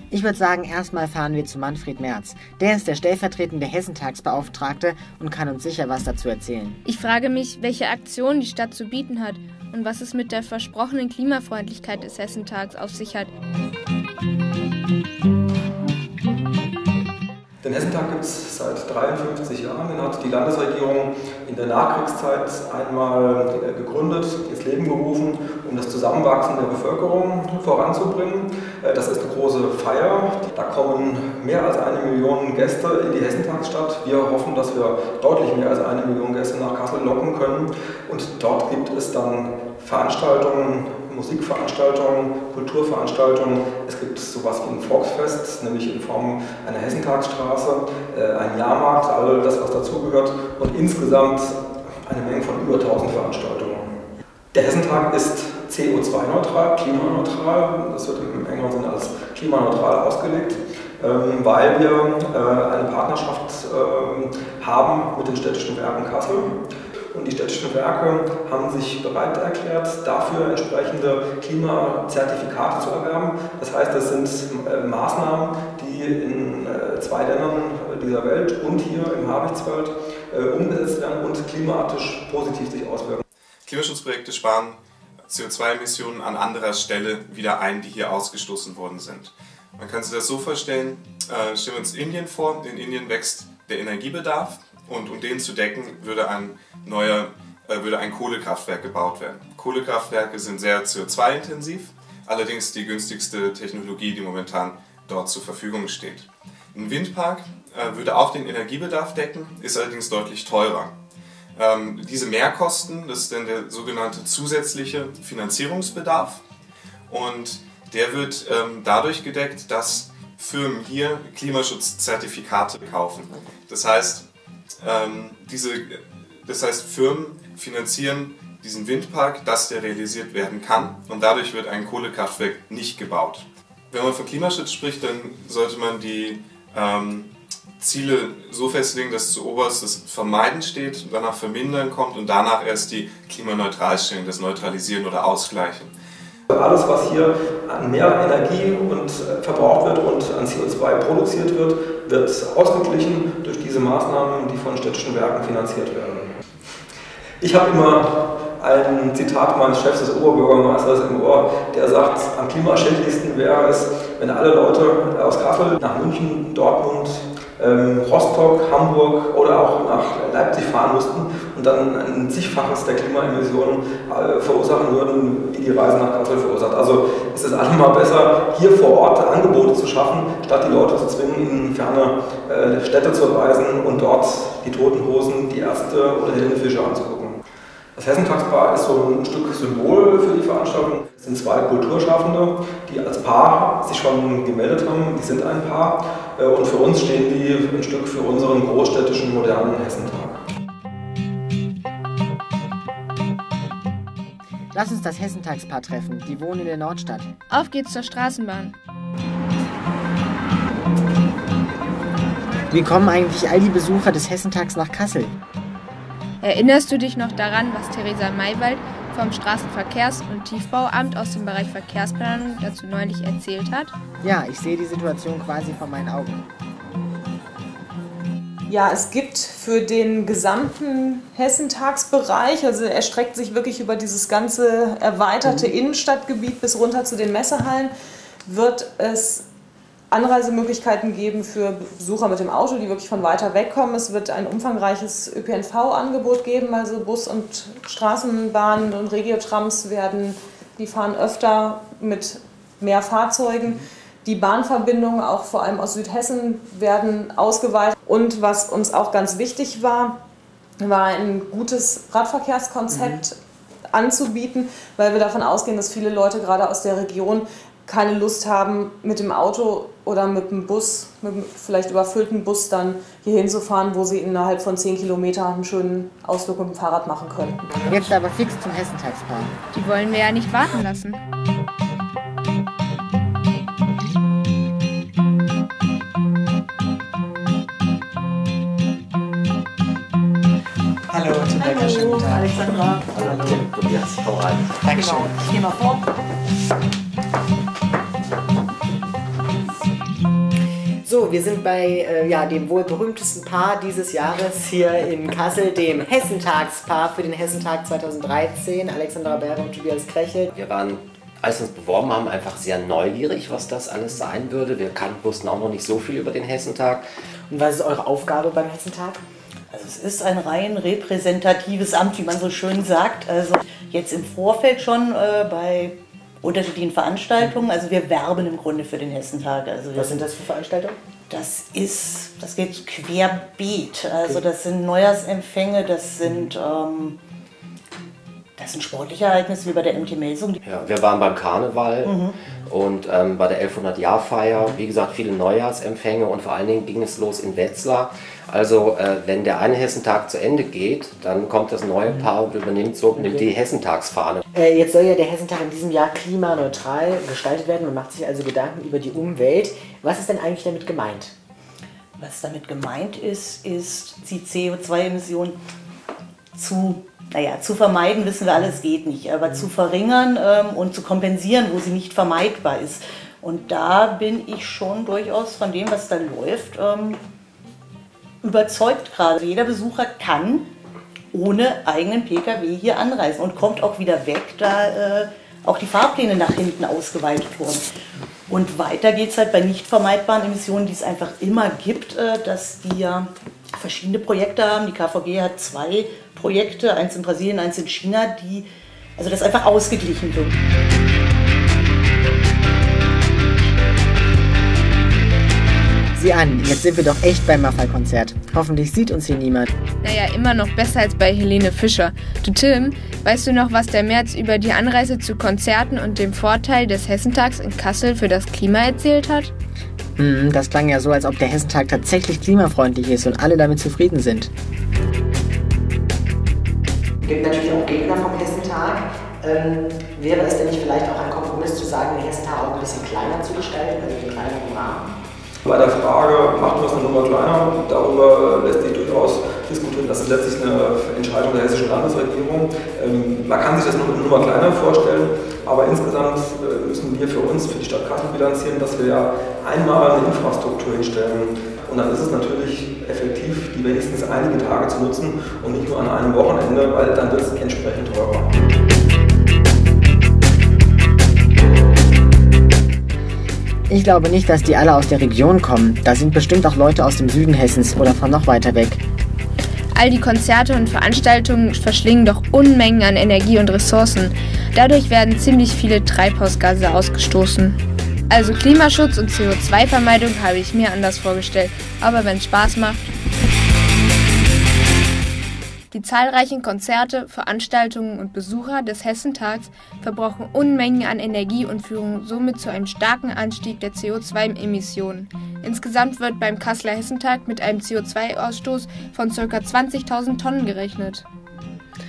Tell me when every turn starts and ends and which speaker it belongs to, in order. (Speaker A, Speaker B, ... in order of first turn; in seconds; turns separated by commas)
Speaker A: 0.1-6.8, Speaker B: 6.8-13.3, Speaker C: 17.6-53.9, Speaker C: 54.5-66.6, Speaker C: 67.1-83.2, Speaker D: 83.6-110.9, Speaker D: 111.5-116.4, Speaker D: 117.1-124.3, Speaker D: 124.8-145.9, Speaker C: 146.5-156.3, Speaker C: 157.4-158.1, Speaker C: 158.6-187.4, Speaker C: 187.9-200.4, Speaker A: 204.7-207.3, Speaker B: 207.5-208.7, Speaker A: 212.7-215.3, Speaker B: 216.4-223.9, Speaker A: 224.2-226.4, Speaker E: 228.7-237.9, Speaker E: 238.4-239.5, Speaker E: 240.1-260.2, Speaker E: 260.8-263.4, Speaker A: 262.9-263.2, Speaker E: 263.9-278.0, Speaker A: 277.8-279.5, Speaker B: 279.7-281.2, Speaker A: 291.1-292.5, Speaker F: 291.5-293.1, Speaker G: 293.1-294.9, Speaker A: 293.2-293.5, Speaker A: 294.8-295.5, Speaker F: 294.9-296.0, Speaker A: 301.0-310.5, Speaker G: 310.5-317.1, Speaker A: 317.5-319.2, Speaker F: 319.7-330.3, Speaker A: 329.9-331.0, Speaker F: 331.3-337.2, Speaker F: 338.6-340.6, Speaker G: 340.6-354.4, Speaker F: 342.0-342.4, Speaker A: 354.5-361.3, Speaker F: 362.2-365.6, Speaker F: 366.5-377.2, Speaker F: 378.4-380.7, Speaker F: 381.3-387.9, Speaker F: 388.5-400.6, Speaker A: 406.1-409.7, Speaker B: 410.0-419.5, Speaker A: 420.2-424.5, Speaker A: 427.2-435.1, Speaker C: 435.7-458.6, Speaker A: 463.9-469.0, Speaker B: 469.9-477.8, Speaker B: 478.3-483.0, Speaker B: 485.9-501.2